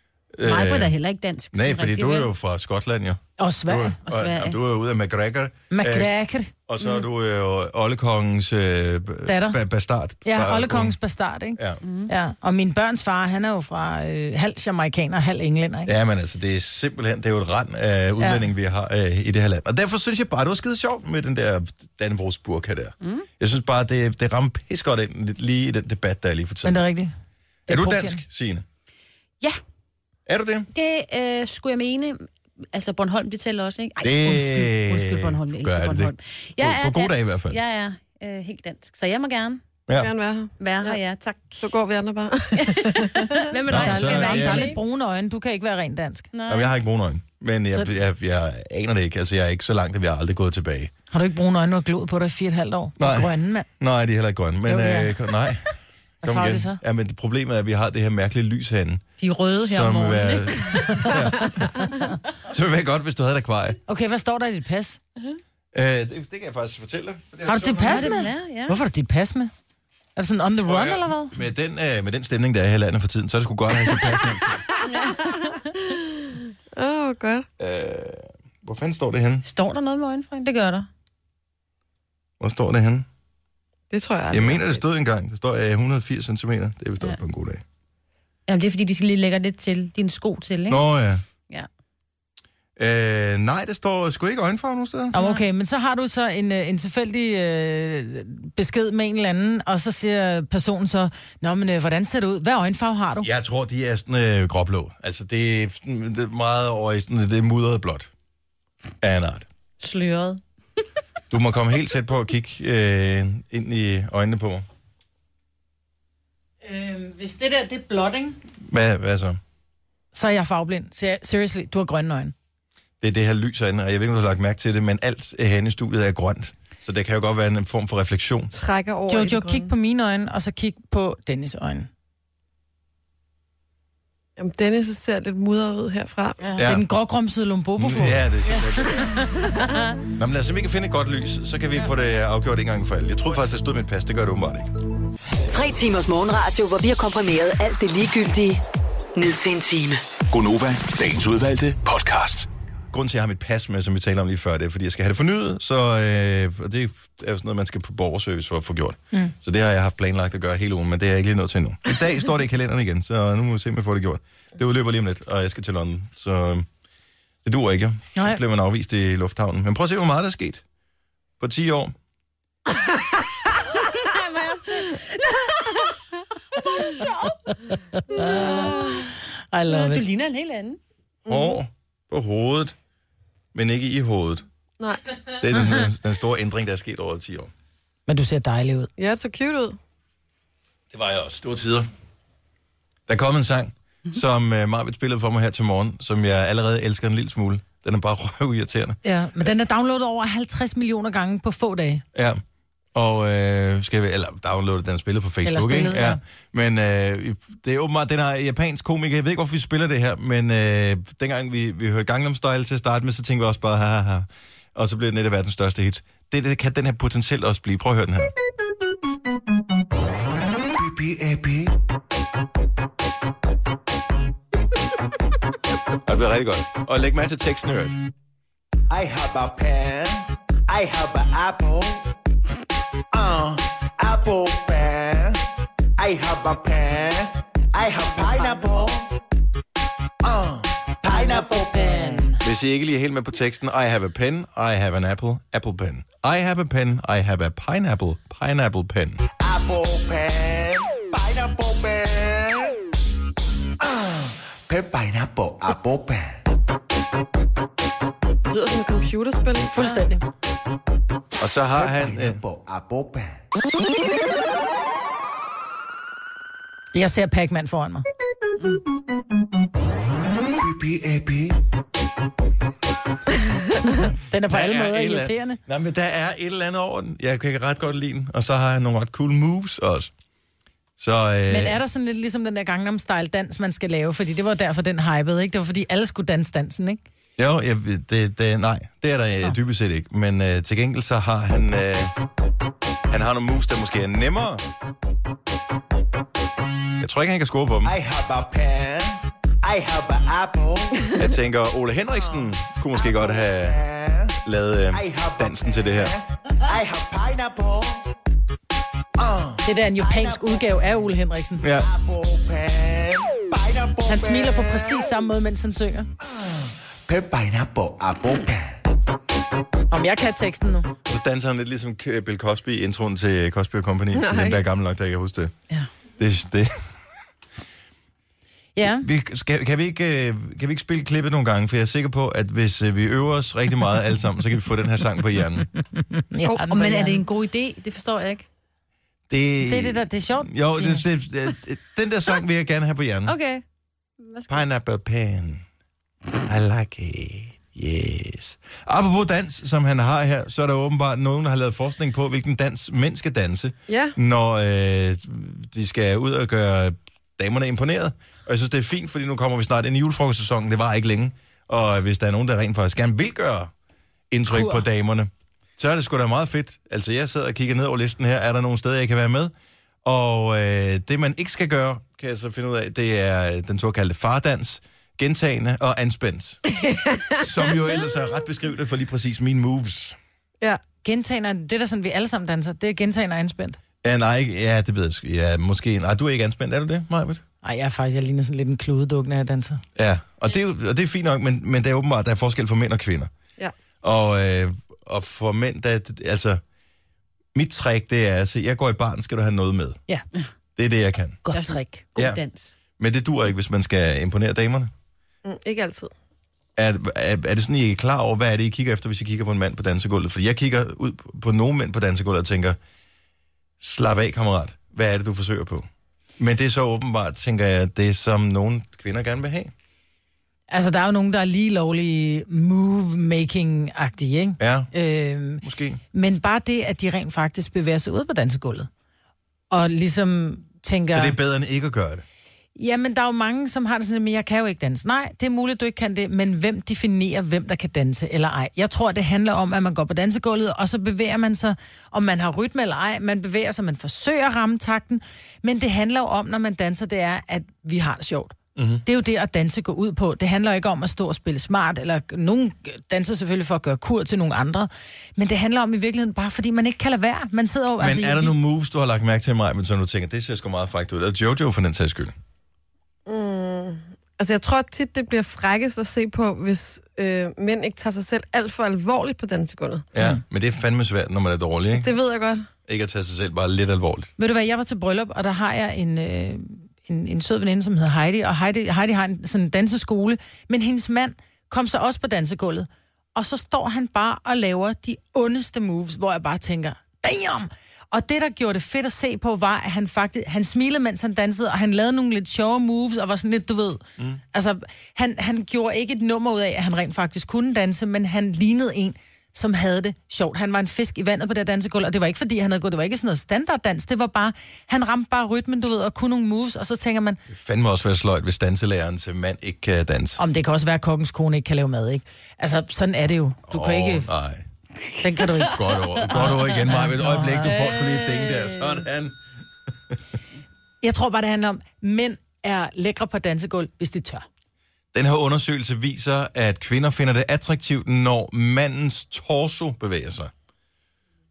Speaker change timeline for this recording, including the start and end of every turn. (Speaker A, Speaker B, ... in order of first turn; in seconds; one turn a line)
Speaker A: 0.3-0.9
Speaker B: 0.4-2.3
Speaker A: 1.5-6.1
Speaker C: 3.4-4.0
Speaker B: 4.0-4.6
Speaker C: 5.7-6.5
Speaker A: 6.7-10.9
Speaker C: 9.2-9.6
Speaker C: 10.2-15.9
Speaker B: 11.8-12.1
Speaker A: 15.9-26.8
Speaker C: 18.2-18.5
Speaker B: 23.0-23.3
Speaker C: 26.6-27.1
Speaker A: 27.7-28.6
Speaker C: 27.7-28.2
Speaker A: 30.3-30.7
Speaker B: 30.7-39.6
Speaker A: 34.0-37.6
Speaker A: 39.9-40.1
Speaker D: 40.0-41.0
Speaker B: 40.6-41.6
Speaker D: 41.6-43.5
Speaker B: 42.5-44.8
Speaker A: 43.7-44.7
Speaker C: 43.7-46.3
Speaker B: 46.3-46.7
Speaker A: 46.5-50.9
Speaker C: 51.1-53.7
Speaker A: 53.0-55.7
Speaker C: 54.7-55.3
Speaker A: 56.2-61.8
Speaker C: 56.2-56.8
Speaker B: 59.2-61.6
Speaker A: 62.4-63.8
Speaker C: 63.9-65.0
Speaker A: 65.7-68.2
Speaker C: 67.5-69.5
Speaker B: 67.8-68.8
Speaker C: 70.2-71.3
Speaker A: 70.7-74.6
Speaker D: 74.7-77.5
Speaker B: 74.8-75.8
Speaker A: 77.6-79.4
Speaker B: 79.4-80.9
Speaker A: 82.4-83.0
Speaker D: 83.9-84.8
Speaker A: 84.3-87.6
Speaker B: 88.5-90.8
Speaker A: 90.7-91.2
Speaker A: 92.8-95.1
Speaker C: 95.1-103.3
Speaker B: 95.1-95.4
Speaker A: 103.2-108.1
Speaker A: 109.0-109.5
Speaker B: 109.8-110.4
Speaker A: 111.3-114.6
Speaker C: 116.6-118.4
Speaker A: 118.6-119.4
Speaker C: 120.1-122.3
Speaker A: 123.0-128.5
Speaker D: 128.5-129.7
Speaker C: 129.1-131.9
Speaker D: 134.4-136.4
Speaker B: 136.4-136.7
Speaker A: 136.6-136.8
Speaker C: 136.6-138.2
Speaker A: 137.8-139.2
Speaker B: 138.4-139.9
Speaker A: 140.2-144.7
Speaker E: 145.5-148.6
Speaker E: 149.1-150.1
Speaker F: 150.3-152.5
Speaker A: 152.9-166.7
Speaker A: 167.4-170.6
Speaker C: 168.2-168.4
Speaker A: 171.4-171.9
Speaker B: 173.7-175.9
Speaker B: 176.6-177.3
Speaker C: 177.0-180.0
Speaker B: 178.1-178.9
Speaker B: 179.7-180.8
Speaker D: 181.2-181.6
Speaker A: 181.3-182.7
Speaker A: 183.5-184.4
Speaker A: 185.3-187.5
Speaker C: 188.1-188.9
Speaker D: 189.0-189.8
Speaker A: 190.9-191.9
Speaker A: 193.1-199.0
Speaker C: 199.0-202.0
Speaker A: 202.1-202.4
Speaker A: 202.9-218.3
Speaker C: 205.4-206.2
Speaker G: 220.7-221.8
Speaker A: 226.0-228.0
Speaker G: 228.9-232.1
Speaker G: 233.1-235.4
Speaker G: 236.0-239.2
Speaker G: 240.2-242.3
Speaker C: 241.1-242.4
Speaker A: 242.4-249.2
Speaker G: 249.4-252.8
Speaker G: 253.8-256.4
Speaker D: 258.5-259.9
Speaker C: 259.7-260.2
Speaker A: 261.4-262.4
Speaker G: 261.7-263.4
Speaker C: 266.9-268.0
Speaker G: 270.6-271.6
Speaker C: 274.2-275.6
Speaker A: 274.5-280.1
Speaker A: 281.0-281.8
Speaker C: 281.5-287.0
Speaker A: 287.4-292.1
Speaker A: 293.1-294.6
Speaker A: 297.0-297.9
Speaker G: 297.8-301.2
Speaker A: 301.2-303.8
Speaker G: 302.2-304.4
Speaker A: 304.4-306.1
Speaker G: 304.9-308.1
Speaker G: 309.2-311.0
Speaker C: 309.6-311.6
Speaker A: 311.6-311.9
Speaker G: 311.8-315.0
Speaker C: 314.1-316.1
Speaker G: 316.2-318.8
Speaker C: 319.9-320.9
Speaker A: 321.1-325.5
Speaker D: 324.1-324.6
Speaker A: 326.2-326.9
Speaker C: 328.8-329.1
Speaker A: 328.8-335.7
Speaker C: 335.9-337.2
Speaker B: 336.7-338.4
Speaker A: 339.3-343.3
Speaker C: 339.6-341.0
Speaker B: 343.2-343.6
Speaker B: 344.2-344.6
Speaker A: 344.5-345.6
Speaker A: 346.4-363.7
Speaker D: 353.9-354.1
Speaker A: 364.3-369.5
Speaker C: 364.5-364.8
Speaker A: 370.0-376.6
Speaker D: 376.9-377.4
Speaker A: 377.3-380.2
Speaker C: 381.0-383.8
Speaker A: 384.0-387.4
Speaker C: 387.6-389.8
Speaker A: 389.9-393.3
Speaker A: 394.0-396.6
Speaker A: 397.5-400.0
Speaker A: 400.8-401.4
Speaker C: 401.4-402.0
Speaker B: 401.5-402.7
Speaker A: 403.0-404.9
Speaker D: 405.4-406.1
Speaker A: 406.8-412.8
Speaker A: 413.8-415.9
Speaker A: 416.4-419.7
Speaker C: 420.7-428.9
Speaker A: 424.6-424.9
Speaker A: 425.6-426.0
Speaker C: 429.7-431.4
Speaker A: 431.1-432.2
Speaker C: 432.8-458.6
Speaker A: 448.8-449.0
Speaker A: 458.0-462.3
Speaker D: 463.2-470.1
Speaker A: 470.1-472.1
Speaker D: 471.9-472.7
Speaker A: 472.9-474.3
Speaker C: 474.4-494.0
Speaker C: 494.5-507.4
Speaker A: 507.5-510.4
Speaker C: 510.4-514.3
Speaker A: 513.7-514.6
Speaker C: 515.2-517.7
Speaker A: 515.6-519.4
Speaker B: 517.6-518.9
Speaker C: 521.0-524.5
Speaker A: 525.1-530.5